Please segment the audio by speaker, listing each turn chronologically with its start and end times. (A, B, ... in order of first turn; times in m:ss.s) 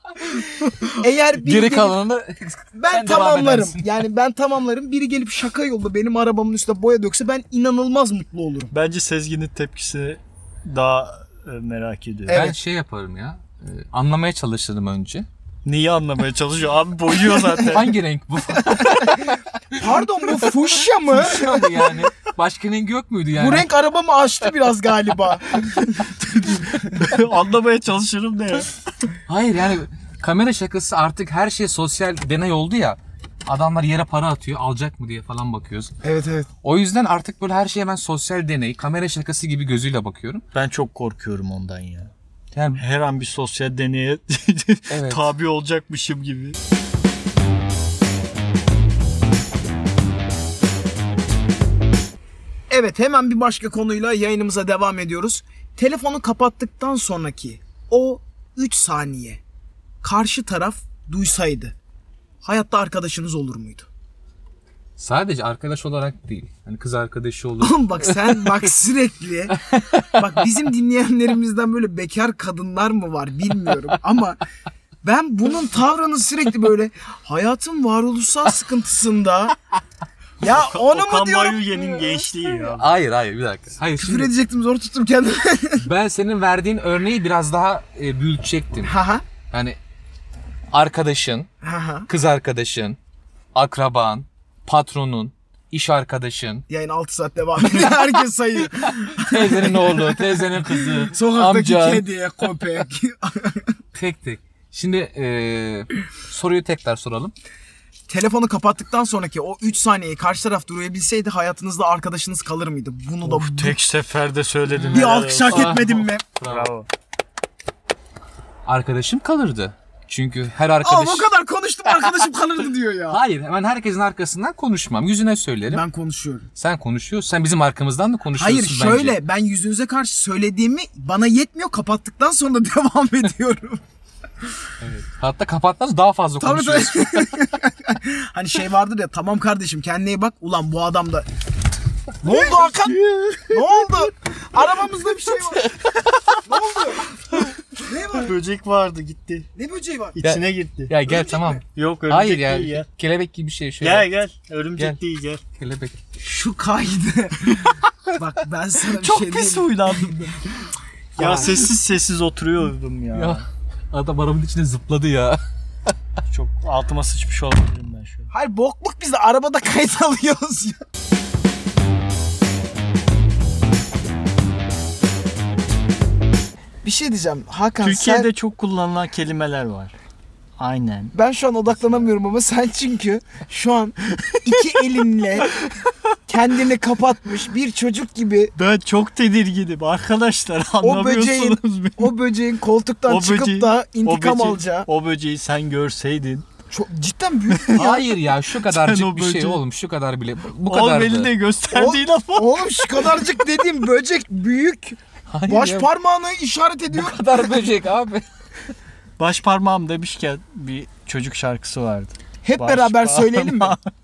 0:00.4-0:02.0 A
0:01.4-0:04.0 B
0:02.8-0:08.7 A
0:08.7-0:12.5 C
0:12.3-0:12.6 A
0:12.3-0:15.3 B
0:15.6-0:17.9 C
0:17.6-0:23.7 B
0:18.8-0:21.9 A
0:23.4-0:25.8 A
0:26.2-0:28.7 C
0:29.3-0:36.0 B
0:36.0-0:36.5 A
0:36.6-0:40.4 B
0:40.5-0:42.1 C
0:42.5-0:42.8 B
0:42.8-0:46.6 C
0:44.9-0:45.3 B
0:52.7-0:59.4 A
1:00.0-1:01.8 A
1:02.4-1:03.9 A
1:05.0-1:08.7 B
1:07.6-1:14.4 A
1:09.7-1:10.2 B
1:15.0-1:19.6 A
1:20.4-1:22.2 A
1:20.4-1:22.9 C
1:22.8-1:24.3 B
1:24.0-1:25.9 A
1:25.8-1:28.9 B
1:28.8-1:29.2 A
1:29.5-1:29.8 B
1:30.7-1:31.5 B
1:31.6-1:32.1 A
1:32.1-1:33.0 B
1:33.6-1:36.6 B
1:36.7-1:43.8 A
1:38.8-1:42.1 B
1:43.9-1:47.3 B
1:48.1-1:53.8 A
1:53.2-1:56.9 C
1:54.8-1:56.7 B
1:54.9-1:56.2 A
1:58.7-2:01.3 B
2:00.8-2:03.2 A
2:03.1-2:05.8 B
2:05.7-2:06.5 A
2:06.6-2:09.2 B
2:08.4-2:13.8 A
2:14.8-2:17.3 B
2:16.4-2:21.3 A
2:22.2-2:25.7 A
2:22.3-2:23.9 C
2:26.4-2:27.1 A
2:27.8-2:28.3 A
2:28.2-2:29.5 C
2:29.6-2:30.2 A
2:30.2-2:31.0 C
2:30.2-2:34.1 B
2:31.7-2:32.9 C
2:33.8-2:35.4 C
2:35.6-2:36.0 B
2:36.2-2:40.4 A
2:38.9-2:40.4 C
2:41.2-2:41.7 A
2:41.2-2:43.4 C
2:41.2-2:41.6 B
2:43.1-2:45.9 B
2:46.3-2:48.3 C
2:48.3-2:50.8 A
2:56.8-2:58.3 A
2:57.8-2:59.9 C
3:00.6-3:01.1 C
3:01.1-3:05.5 A
3:06.3-3:08.5 A
3:08.6-3:12.2 C
3:10.8-3:14.9 A
3:13.1-3:16.5 C
3:16.7-3:18.0 A
3:17.5-3:18.0 C
3:17.7-3:21.3 B
3:18.6-3:19.6 C
3:20.7-3:23.4 C
3:21.7-3:27.4 A
3:25.3-3:25.9 B
3:26.9-3:28.2 B
3:29.2-3:33.9 C
3:32.4-3:33.8 A